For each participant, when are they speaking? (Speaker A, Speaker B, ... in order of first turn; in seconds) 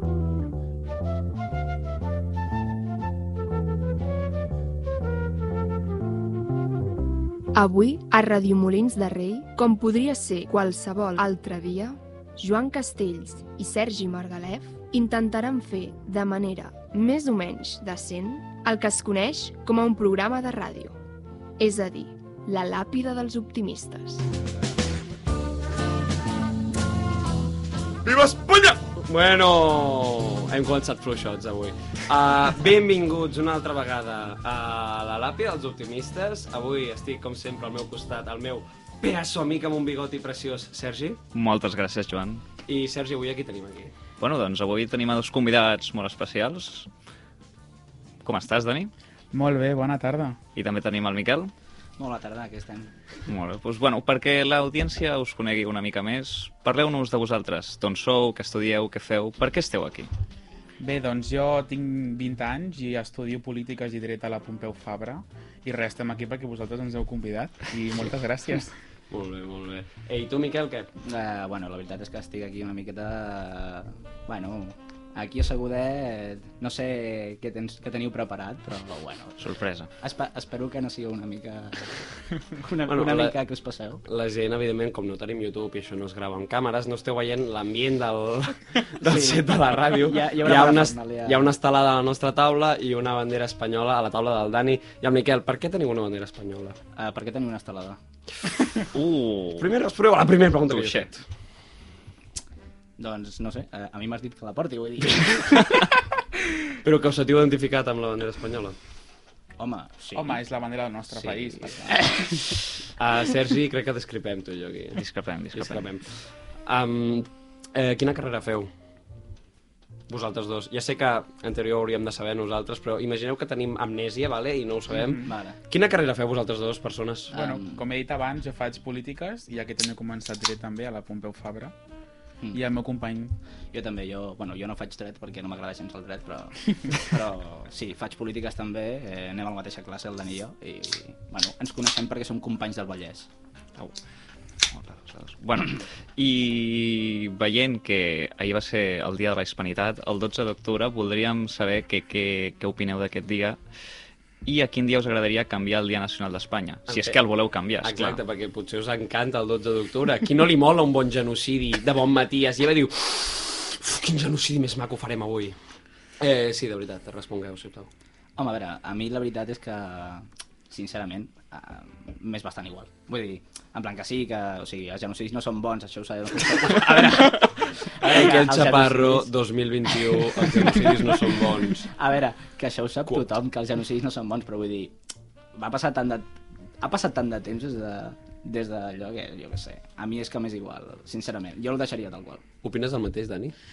Speaker A: 7.5-20.9, 21.6-24.2
Speaker B: 28.0-41.2, 42.6-43.9, 69.1-70.9, 82.8-83.3, 84.0-96.8, 99.6-101.2, 105.3-105.6, 106.8-108.8, 111.2-111.6, 112.9-118.7, 120.1-127.4, 156.9-157.2, 157.8-165.6, 166.2-167.9, 178.0-181.9, 192.6-193.5
Speaker C: 41.3-42.4, 44.2-46.9, 48.2-48.9, 50.5-51.5, 53.3-60.1, 79.4-79.9, 98.8-99.7, 100.7-101.1, 115.0-115.9, 144.7-153.6, 154.4-158.2
Speaker D: 49.3-50.4, 60.8-68.7, 110.1-112.3, 124.9-125.3, 127.3-131.7, 132.5-133.3
Speaker E: 52.0-52.9, 71.0-84.0, 89.0-91.5, 96.9-98.0, 103.0-105.9, 109.6-110.4, 111.8-112.5, 125.2-125.5, 127.3-127.8, 133.7-143.3, 168.4-179.3, 180.1-184.9, 185.5-186.3, 186.8-192.4